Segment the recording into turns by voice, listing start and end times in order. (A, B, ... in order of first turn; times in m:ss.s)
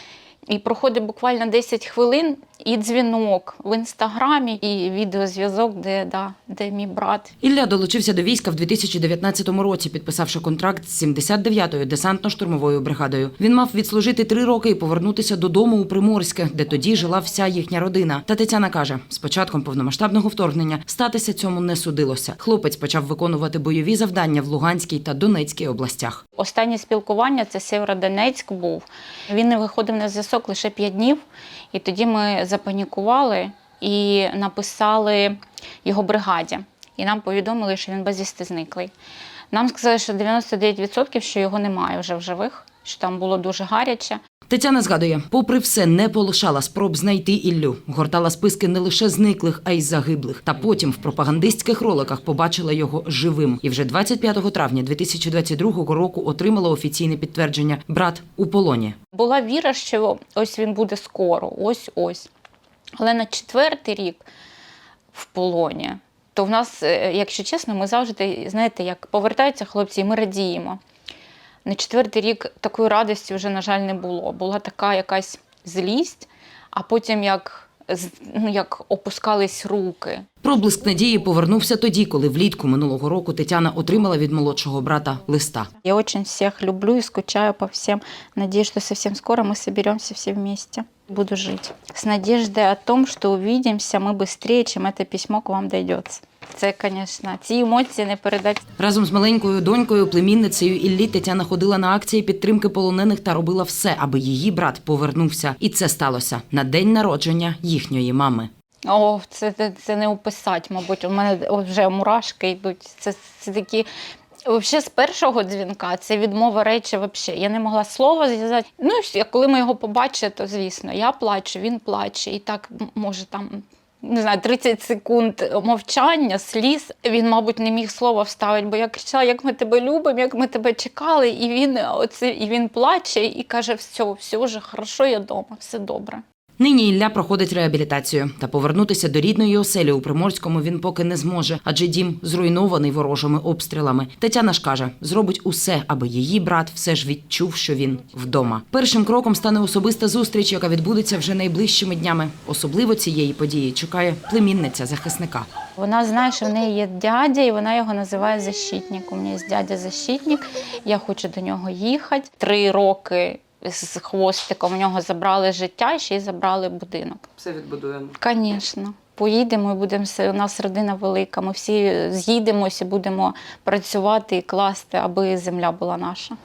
0:00.5-0:07.4 A
0:07.4-0:26.2 B
0:26.4-0:38.9 A
0:39.5-0:44.2 A
0:44.5-0:59.0 B
0:59.1-1:02.3 A
1:03.0-1:04.2 A
1:05.1-1:10.8 A
1:11.6-1:20.3 A
1:20.4-1:25.7 B
1:25.7-1:38.7 A
1:38.8-1:48.5 B
1:48.9-1:53.9 A
1:54.4-2:16.2 A
2:16.6-2:35.5 B
2:35.8-2:47.3 A
2:47.4-2:48.2 B
2:48.2-2:56.4 A